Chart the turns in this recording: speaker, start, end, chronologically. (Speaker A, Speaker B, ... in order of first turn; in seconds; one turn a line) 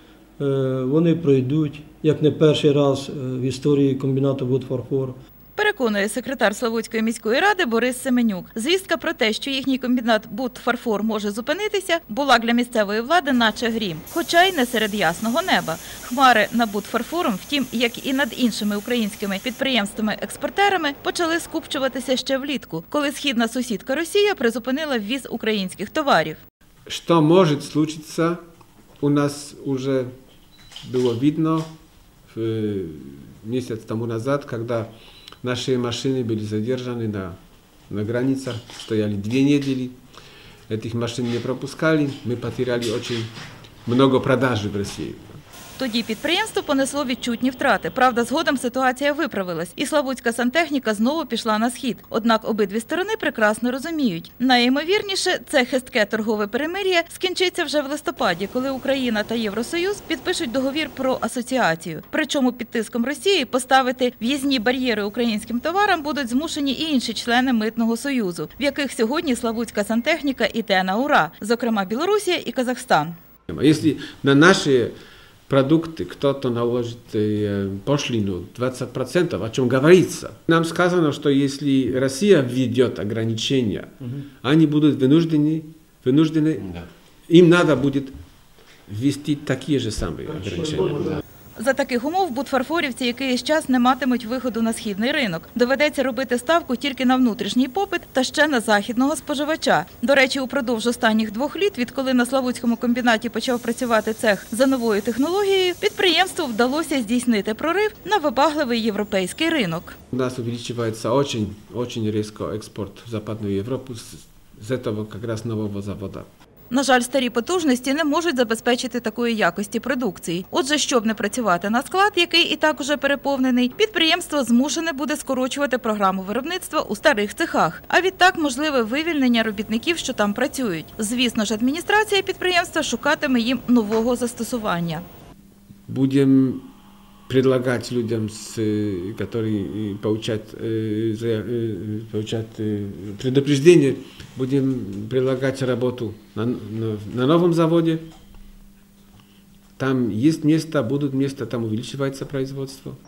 Speaker A: 0.4-5.2
Speaker B: 5.6-26.4
Speaker C: 26.9-28.4
Speaker C: 29.0-30.1
Speaker C: 30.8-31.8
Speaker C: 32.3-37.4
Speaker C: 37.9-40.0
Speaker C: 40.7-43.3
Speaker C: 43.9-45.4
Speaker B: 45.8-73.2
Speaker C: 73.5-75.0
Speaker C: 75.5-88.2
Speaker C: 88.9-91.2
Speaker B: 91.6-110.0
Speaker C: 110.1-116.3
Speaker B: 116.7-135.1
Speaker C: 135.9-136.7
Speaker C: 137.3-148.1
Speaker C: 149.8-153.0